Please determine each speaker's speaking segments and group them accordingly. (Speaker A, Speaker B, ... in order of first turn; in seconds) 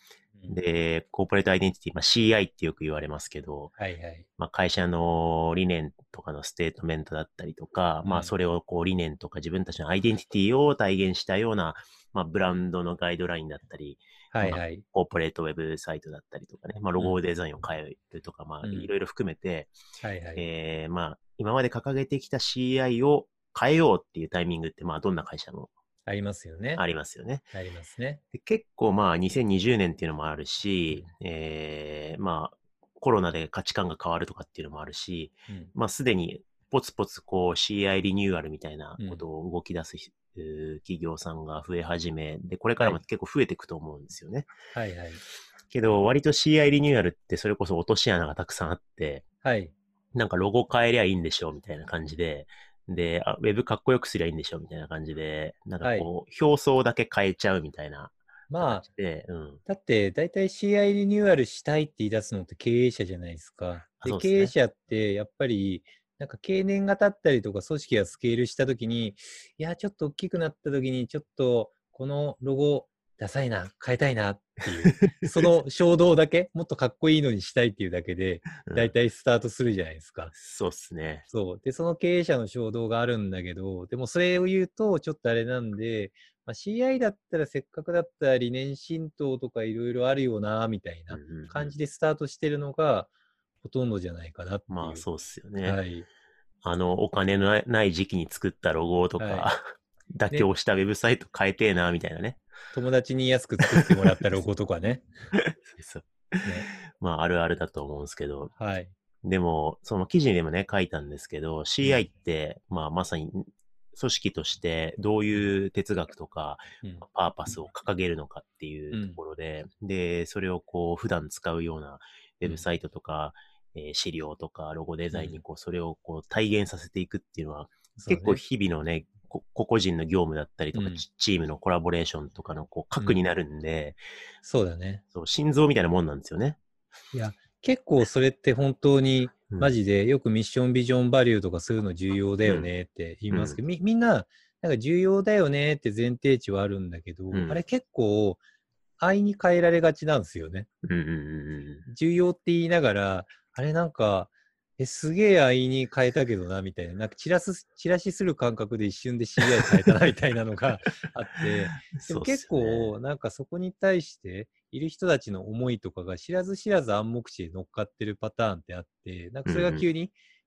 Speaker A: 0.5-3.7, 4.4-19.7, 20.4-25.7, 26.8-27.5, 28.3-44.5, 45.7-49.2, 50.1-59.6, 64.0-64.5, 74.7-75.1, 78.7-78.9, 80.3-81.3, 91.1-91.8, 94.7-95.8, 96.6-99.6, 100.1-102.4, 103.7-103.9, 105.4-108.5, 109.2-134.0, 135.1-136.6, 142.4-142.7, 143.3-143.6, 147.3-147.6, 150.8-151.8, 161.5-162.9, 169.5-169.9
Speaker B: 3.8-4.3, 8.0-8.3, 14.3-14.8, 18.6-18.9, 20.0-20.4, 26.1-26.8, 27.5-28.2, 39.0-39.2, 44.7-45.2, 49.4-49.8, 55.8-56.1, 58.5-58.9, 59.7-80.3, 81.3-95.1, 95.6-96.1, 99.2-99.5, 102.7-105.1, 108.5-108.9, 118.9-119.2, 125.1-125.4, 128.0-128.4, 130.7-131.0, 133.0-133.2, 134.4-135.0, 137.1-148.4, 149.0-150.7, 151.8-170.2